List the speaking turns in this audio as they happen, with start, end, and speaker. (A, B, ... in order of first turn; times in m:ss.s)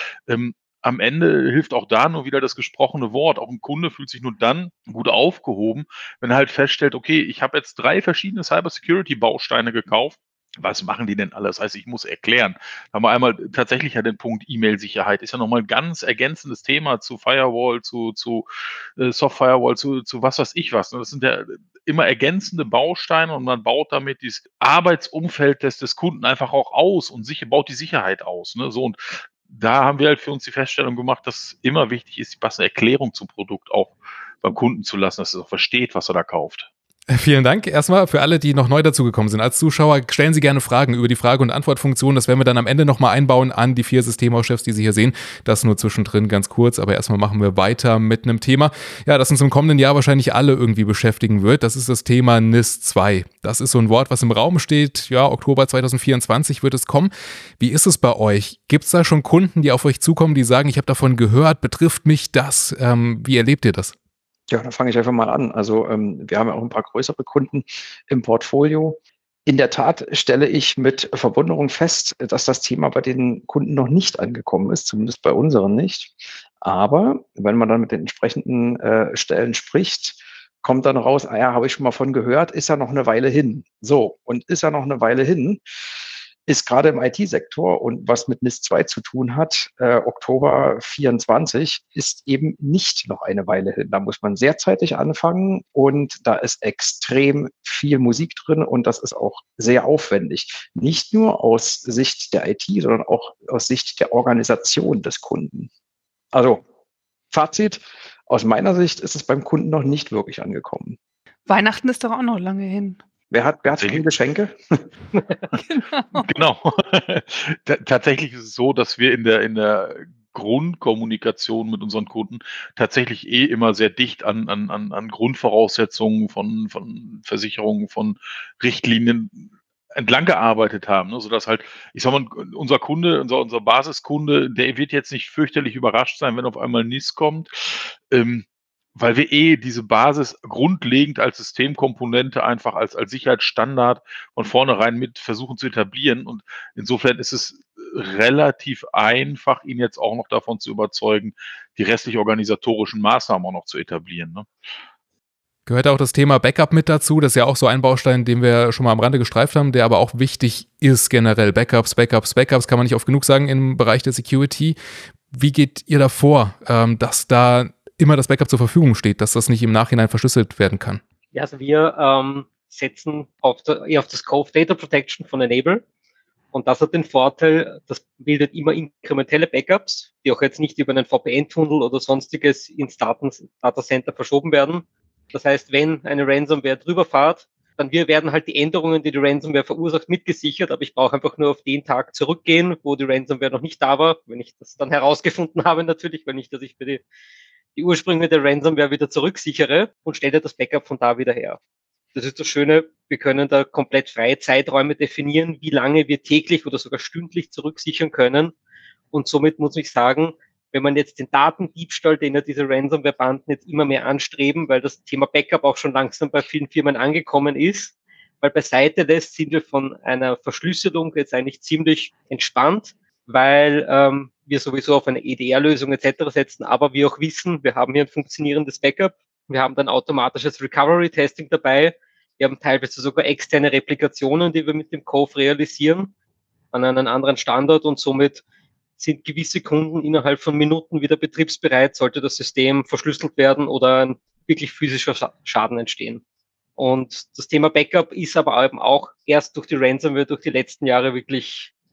0:00.3-0:18.4 A
0:19.0-0:36.7 A
0:37.1-1:03.9 B
1:04.5-1:25.6 C
1:26.5-1:45.7 C
1:46.3-1:46.6 C
1:47.3-1:51.0 C
1:51.5-1:53.0 D
1:53.3-1:54.9 C
1:53.8-1:54.0 A
1:55.6-1:56.3 D
1:56.2-2:34.5 A
2:35.7-2:44.8 B
2:45.3-2:51.0 B
2:51.3-2:55.8 E
2:56.5-3:17.0 E
3:17.8-3:21.6 E
3:22.2-3:28.5 E
3:29.1-3:56.1 E
3:56.7-3:58.4 E
3:59.0-4:06.2 E
4:06.8-4:11.7 E